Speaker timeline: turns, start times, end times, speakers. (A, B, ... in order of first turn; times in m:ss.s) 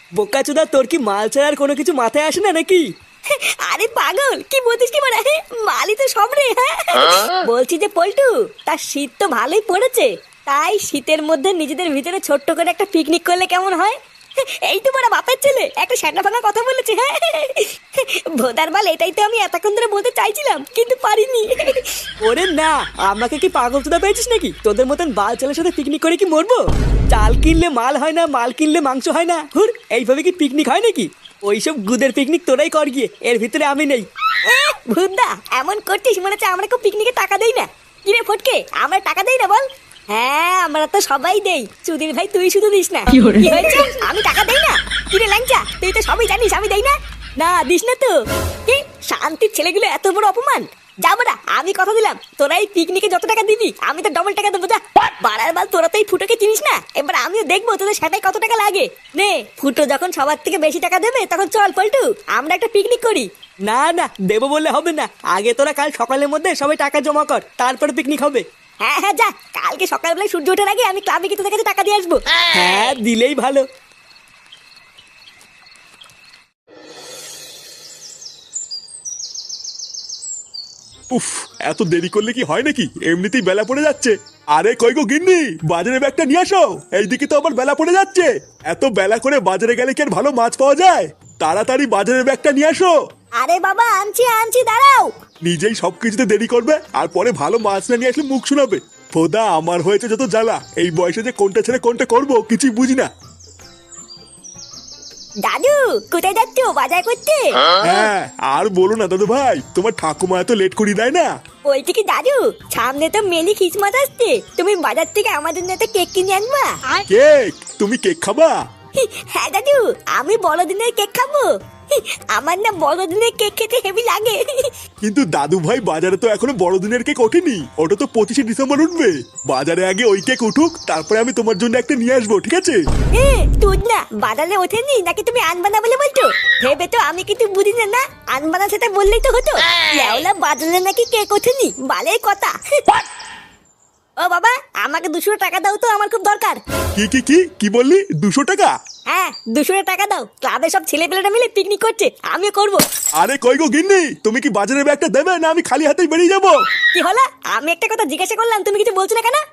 0:00.2-0:02.9 A
0:03.3-0:14.0 B
0:14.6-0:21.9 B
0:22.2-0:34.0 A
0:34.4-0:48.1 B
0:48.7-1:03.3 B
1:03.7-1:08.4 A
1:08.8-1:12.9 B
1:12.5-1:13.6 A
1:21.1-1:32.9 C
1:33.4-1:35.1 B
1:35.4-1:43.1 C
1:45.4-1:47.8 B
1:47.8-1:51.3 C
1:51.6-1:56.8 B
1:57.1-1:58.6 C
1:59.0-2:04.7 B
2:05.0-2:12.8 C
2:13.1-2:23.0 B
2:24.2-2:26.6 B
2:27.0-2:28.7 C
2:29.1-2:32.8 B
2:33.2-2:36.6 C
2:36.9-2:39.4 B